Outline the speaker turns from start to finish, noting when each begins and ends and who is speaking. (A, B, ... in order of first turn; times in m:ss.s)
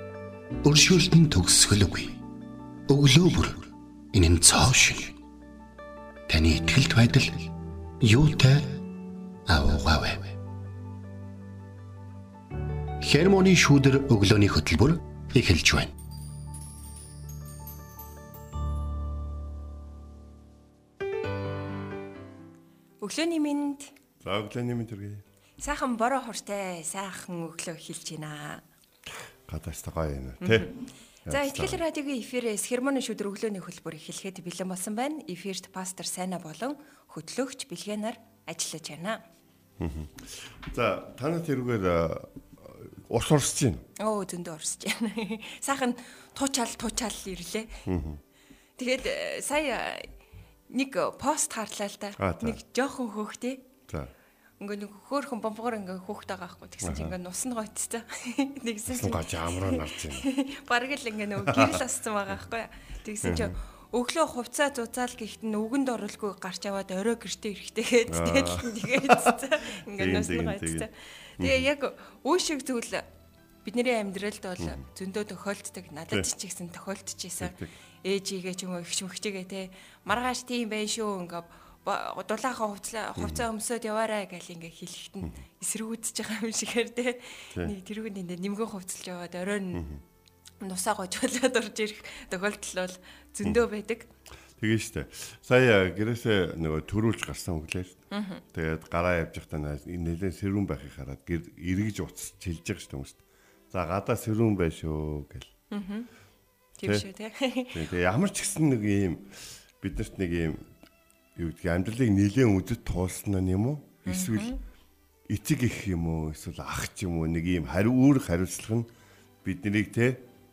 0:00.6-0:02.2 A
0:02.9-0:05.2 A
0:06.3-0:08.8 A
0:09.5-0:10.3 A
0:13.0-0:15.9 A
0:23.0-0:23.9 B
0:24.2-0:25.2 C
0:25.6-0:28.6 B
0:29.5-0:30.7 C
0:30.4-0:30.7 B
0:31.3-0:31.8 C
0:31.3-0:39.2 B
0:39.8-0:43.8 C
0:44.0-0:47.8 B
0:47.9-0:48.2 C
0:48.8-0:50.1 B
0:50.7-0:53.6 B
0:52.2-0:52.6 C
0:54.6-1:13.0 B
0:56.8-0:57.2 C
0:58.9-1:00.2 C
1:01.5-1:01.8 C
1:03.2-1:03.6 C
1:08.1-1:10.9 C
1:11.4-1:11.7 C
1:13.6-1:29.8 B
1:17.4-1:17.7 C
1:23.2-1:23.4 C
1:29.7-1:30.0 C
1:30.6-1:34.1 B
1:34.6-1:38.0 C
1:38.1-1:38.4 B
1:38.5-1:43.2 C
1:43.7-1:45.5 C
1:45.7-1:46.1 B
1:46.8-1:47.8 B
1:47.7-1:50.6 C
1:51.4-1:54.5 C
1:54.1-1:54.6 B
1:55.3-1:58.9 C
1:59.4-2:00.2 C